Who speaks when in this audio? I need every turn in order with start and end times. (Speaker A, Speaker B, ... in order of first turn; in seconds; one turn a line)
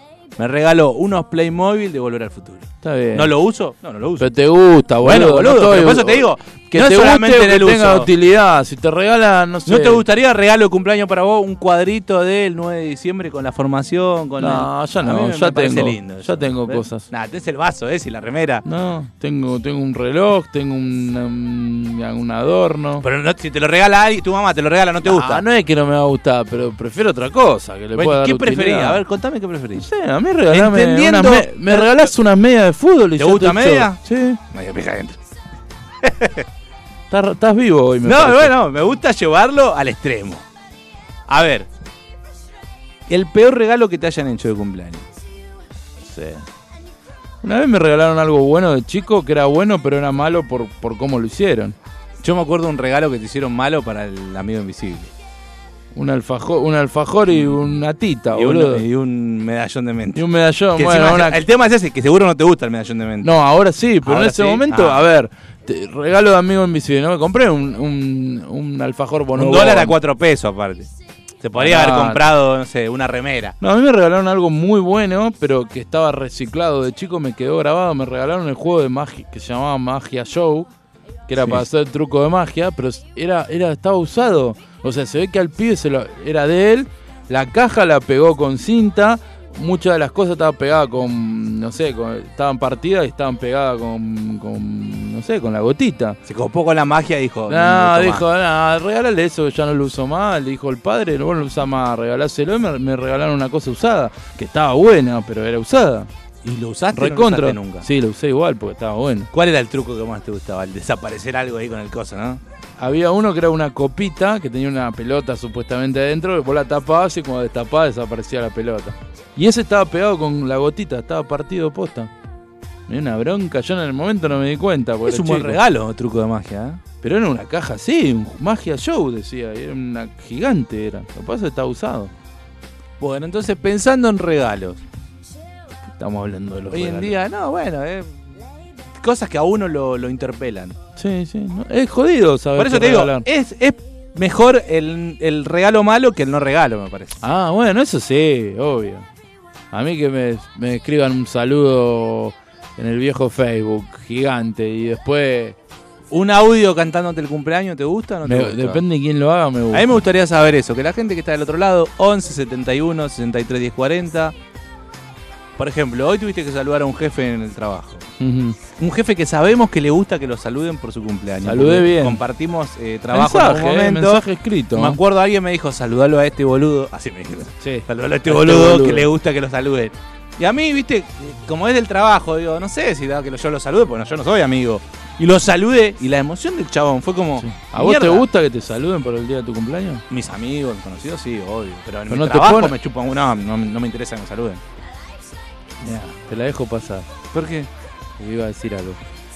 Speaker A: 0.4-4.3
Speaker B: 2.8-3.3
Speaker B: 4.2-10.0
Speaker A: 5.0-8.1
Speaker A: 9.7-18.6
Speaker B: 14.4-17.0
Speaker B: 18.6-23.0
Speaker A: 23.0-25.4
Speaker B: 25.0-29.0
Speaker A: 27.9-29.9
Speaker B: 29.8-34.4
Speaker A: 30.5-32.1
Speaker A: 33.2-34.0
Speaker A: 34.5-35.2
Speaker A: 36.0-36.5
Speaker B: 37.1-38.6
Speaker A: 38.0-40.4
Speaker A: 41.3-41.7
Speaker A: 43.1-45.1
Speaker B: 46.0-46.4
Speaker B: 47.4-51.8
Speaker A: 52.2-55.1
Speaker B: 55.9-58.8
Speaker A: 58.3-63.3
Speaker B: 60.1-61.4
Speaker B: 63.2-70.0
Speaker A: 64.0-65.0
Speaker A: 69.3-70.9
Speaker A: 71.4-73.5
Speaker B: 71.5-72.2
Speaker B: 73.6-80.7
Speaker B: 81.3-96.2
Speaker A: 96.3-98.2
Speaker B: 97.5-106.1
Speaker A: 106.4-107.9
Speaker B: 106.9-109.3
Speaker A: 109.3-112.4
Speaker B: 112.8-122.1
Speaker B: 122.9-125.6
Speaker A: 125.0-126.8
Speaker B: 127.0-132.1
Speaker A: 133.0-134.8
Speaker B: 135.9-137.1
Speaker A: 136.7-138.2
Speaker A: 139.0-140.8
Speaker B: 140.9-143.2
Speaker A: 142.6-147.2
Speaker B: 147.2-149.1
Speaker B: 149.7-155.6
Speaker A: 156.1-158.8
Speaker B: 158.2-160.0
Speaker A: 159.7-164.3
Speaker A: 165.6-168.0
Speaker B: 168.2-168.6
Speaker A: 168.8-188.2
Speaker B: 171.4-172.2
Speaker B: 173.1-175.0
Speaker B: 177.6-179.1
Speaker B: 187.4-190.0
Speaker A: 190.1-194.6
Speaker B: 192.1-192.7
Speaker B: 195.8-197.1
Speaker A: 197.3-197.7
Speaker B: 198.2-199.0